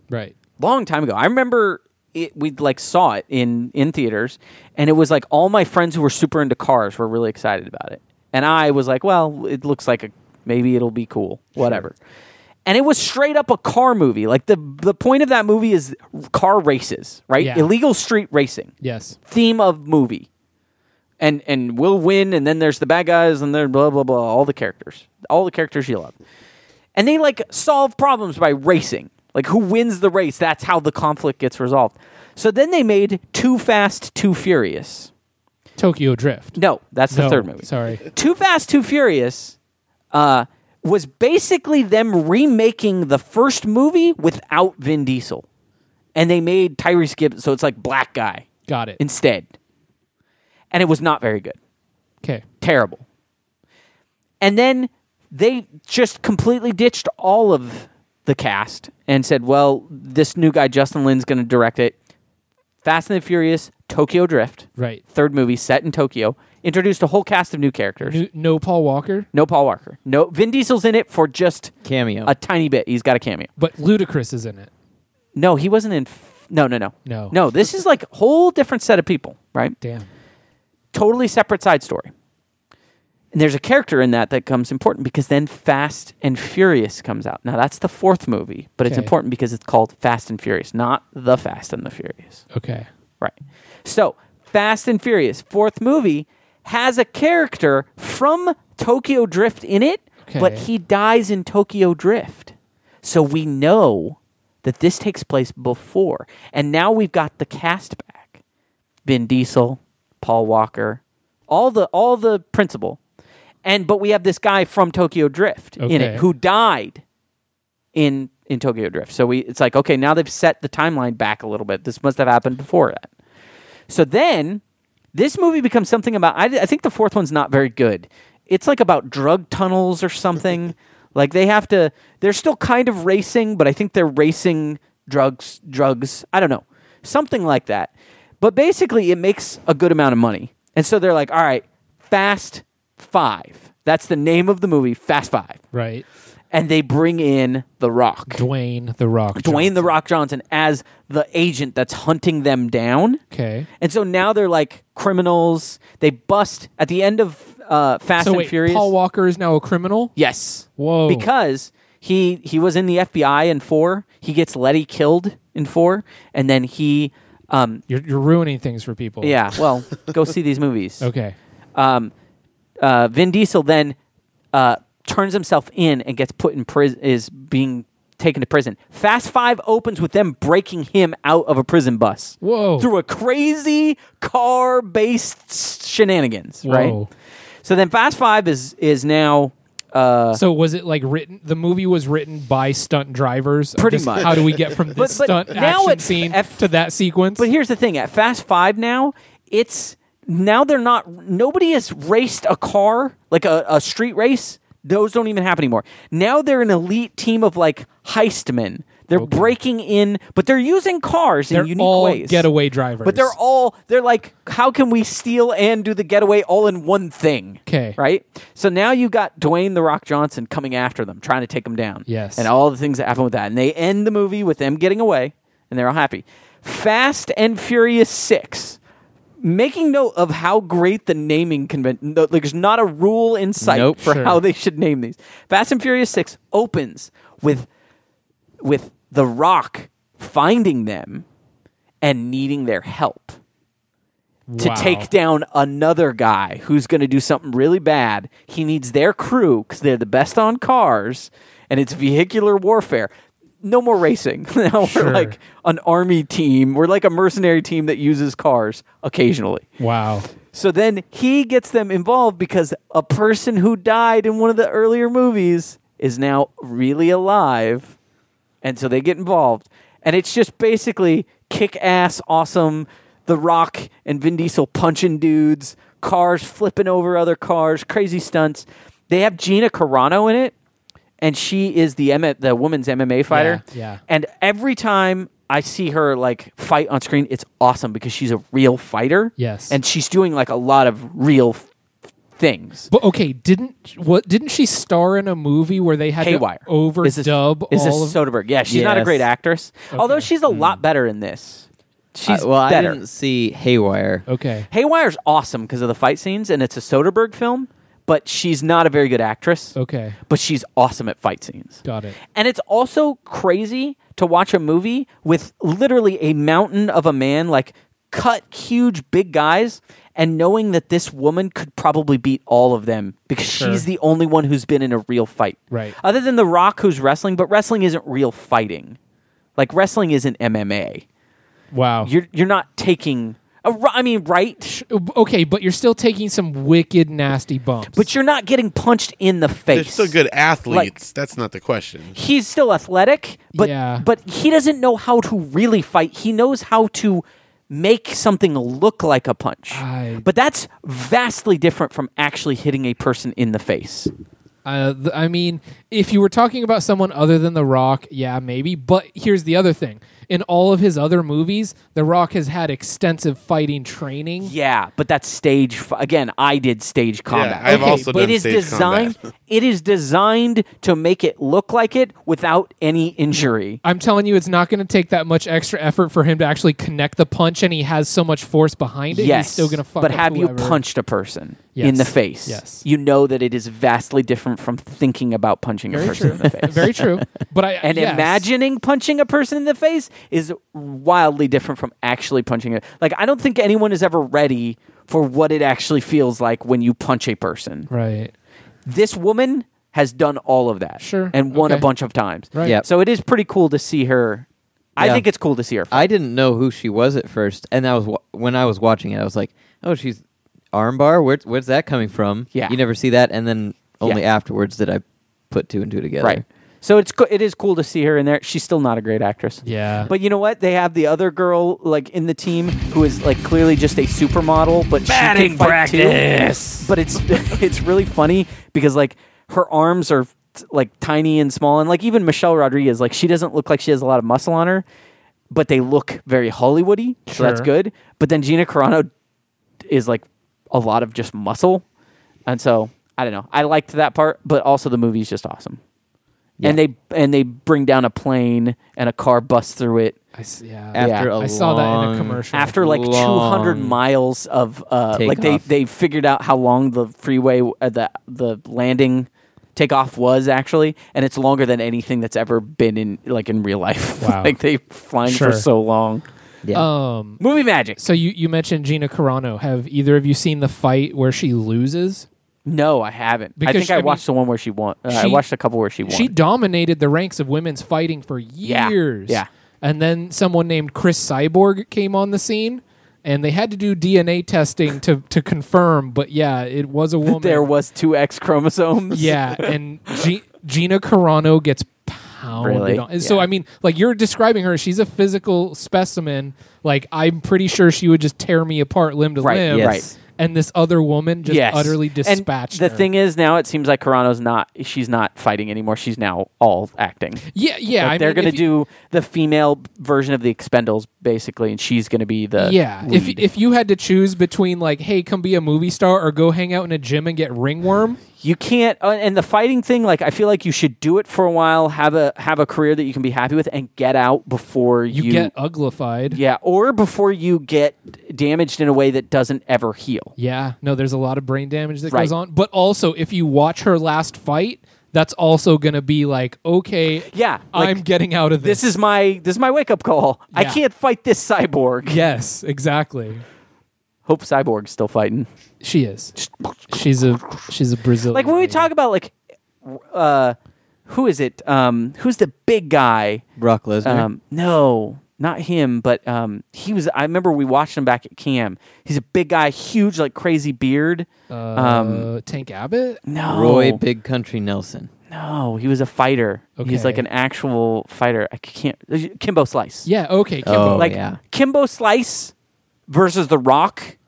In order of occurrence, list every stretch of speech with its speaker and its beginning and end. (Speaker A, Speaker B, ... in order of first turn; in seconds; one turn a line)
Speaker A: 0.6-11.9
Speaker A: 12.7-18.7
Speaker B: 17.4-17.7
Speaker B: 18.8-19.2
Speaker A: 19.3-20.3
Speaker A: 21.2-26.1
Speaker A: 26.9-35.1
Speaker B: 35.8-36.6
Speaker A: 36.6-39.6
Speaker B: 37.1-38.0
Speaker A: 40.1-45.4
Speaker A: 46.1-48.5
Speaker B: 48.7-49.0
Speaker A: 49.0-49.5
Speaker A: 50.7-51.6
Speaker A: 52.6-53.0
Speaker A: 54.4-61.9
Speaker A: 62.8-68.2
Speaker B: 64.8-65.0
Speaker B: 68.0-69.3
Speaker A: 69.3-71.7
Speaker C: 71.8-72.3
Speaker A: 72.3-73.5
Speaker B: 73.6-74.7
Speaker A: 75.3-79.8
Speaker B: 77.1-77.4
Speaker B: 79.8-80.1
Speaker A: 80.9-82.1
Speaker A: 83.3-92.4
Speaker B: 88.8-89.1
Speaker B: 92.5-92.9
Speaker A: 93.8-108.4
Speaker B: 100.3-100.6
Speaker A: 109.1-113.0
Speaker A: 113.6-117.0
Speaker B: 115.8-116.2
Speaker A: 117.9-123.1
Speaker A: 123.9-124.6
Speaker A: 125.1-145.6
Speaker B: 145.7-146.0
Speaker A: 146.5-148.4
Speaker B: 148.3-149.9
Speaker A: 149.3-153.2
Speaker B: 153.3-153.7
Speaker A: 153.8-158.9
Speaker B: 158.2-160.1
Speaker A: 160.2-167.8
Speaker B: 160.8-161.3
Speaker B: 167.9-169.4
Speaker A: 169.2-171.1
Speaker B: 171.0-171.3
Speaker A: 171.7-172.1
Speaker A: 172.8-173.9
Speaker A: 174.5-187.0
Speaker B: 182.4-182.9
Speaker B: 186.6-187.1
Speaker A: 187.6-190.4
Speaker B: 190.3-197.5
Speaker A: 193.8-196.6
Speaker A: 197.4-212.5
Speaker B: 209.1-209.6
Speaker B: 211.5-213.3
Speaker A: 213.0-228.8
Speaker B: 217.7-218.0
Speaker B: 222.1-222.5
Speaker A: 229.4-237.7
Speaker C: 233.6-234.0
Speaker B: 234.0-234.4
Speaker A: 238.6-241.2
Speaker A: 242.0-243.4
Speaker B: 244.5-245.1
Speaker A: 244.6-253.1
Speaker A: 253.6-259.6
Speaker B: 254.8-255.3
Speaker B: 259.8-260.3
Speaker A: 260.5-267.9
Speaker A: 268.6-280.5
Speaker A: 281.2-291.6
Speaker B: 283.3-284.0
Speaker B: 289.4-289.8
Speaker A: 292.4-292.9
Speaker B: 292.9-299.3
Speaker A: 296.2-303.0
Speaker B: 299.9-300.3
Speaker C: 302.3-304.2
Speaker B: 304.3-304.7
Speaker A: 304.7-309.7
Speaker B: 309.7-310.2
Speaker A: 310.3-311.8
Speaker B: 311.8-312.2
Speaker A: 312.4-329.0
Speaker B: 323.5-323.9
Speaker B: 325.7-325.9
Speaker A: 329.6-331.0
Speaker B: 331.7-332.1
Speaker A: 332.1-334.7
Speaker B: 334.6-338.1
Speaker A: 337.9-340.1
Speaker D: 339.7-342.2
Speaker A: 342.1-354.1
Speaker B: 343.6-344.1
Speaker B: 349.7-350.3
Speaker B: 354.6-364.5
Speaker A: 364.4-373.8
Speaker D: 367.3-369.1
Speaker B: 367.7-368.3
Speaker B: 373.8-380.8
Speaker A: 379.1-387.0
Speaker B: 381.7-382.9
Speaker B: 385.9-388.4
Speaker A: 387.8-397.9
Speaker B: 397.9-398.3
Speaker A: 398.9-406.1
Speaker B: 401.0-401.9
Speaker B: 402.5-402.8
Speaker C: 405.0-405.2
Speaker C: 405.9-410.2
Speaker C: 410.7-416.4
Speaker A: 416.2-434.9
Speaker B: 419.6-420.1
Speaker B: 425.1-426.2
Speaker A: 435.5-439.1
Speaker B: 437.3-437.7
Speaker A: 439.9-441.8
Speaker A: 442.5-445.8
Speaker A: 446.6-450.1
Speaker B: 450.4-452.7
Speaker C: 450.9-454.0
Speaker A: 451.0-451.3
Speaker A: 452.5-466.2
Speaker C: 455.1-455.6
Speaker B: 464.2-464.5
Speaker B: 465.3-465.6
Speaker B: 466.7-467.4
Speaker A: 467.4-468.0
Speaker B: 468.0-472.3
Speaker A: 472.6-476.3
Speaker B: 473.6-474.2
Speaker B: 475.1-475.4
Speaker B: 476.1-487.7
Speaker A: 478.6-479.5
Speaker A: 487.2-489.7
Speaker B: 489.1-503.1
Speaker A: 492.6-493.4
Speaker A: 499.4-500.1
Speaker C: 499.7-500.1
Speaker A: 501.4-507.4
Speaker B: 507.5-508.6
Speaker A: 508.0-513.4
Speaker B: 512.6-518.2
Speaker A: 518.4-525.5
Speaker B: 525.1-526.4
Speaker A: 526.3-530.3
Speaker B: 530.4-538.8
Speaker A: 537.3-538.0
Speaker A: 538.6-542.2
Speaker B: 540.5-540.8
Speaker B: 542.1-543.4
Speaker A: 544.3-545.5
Speaker B: 545.8-546.4
Speaker A: 546.4-547.6
Speaker B: 546.9-548.9
Speaker A: 548.3-549.3
Speaker A: 549.9-550.6
Speaker A: 551.1-553.4
Speaker C: 553.6-554.3
Speaker A: 554.0-562.3
Speaker B: 561.5-563.2
Speaker A: 563.3-564.0
Speaker C: 563.5-565.1
Speaker A: 565.3-570.1
Speaker B: 566.8-567.2
Speaker B: 570.0-571.1
Speaker C: 570.6-571.4
Speaker A: 570.9-572.5
Speaker A: 573.1-574.1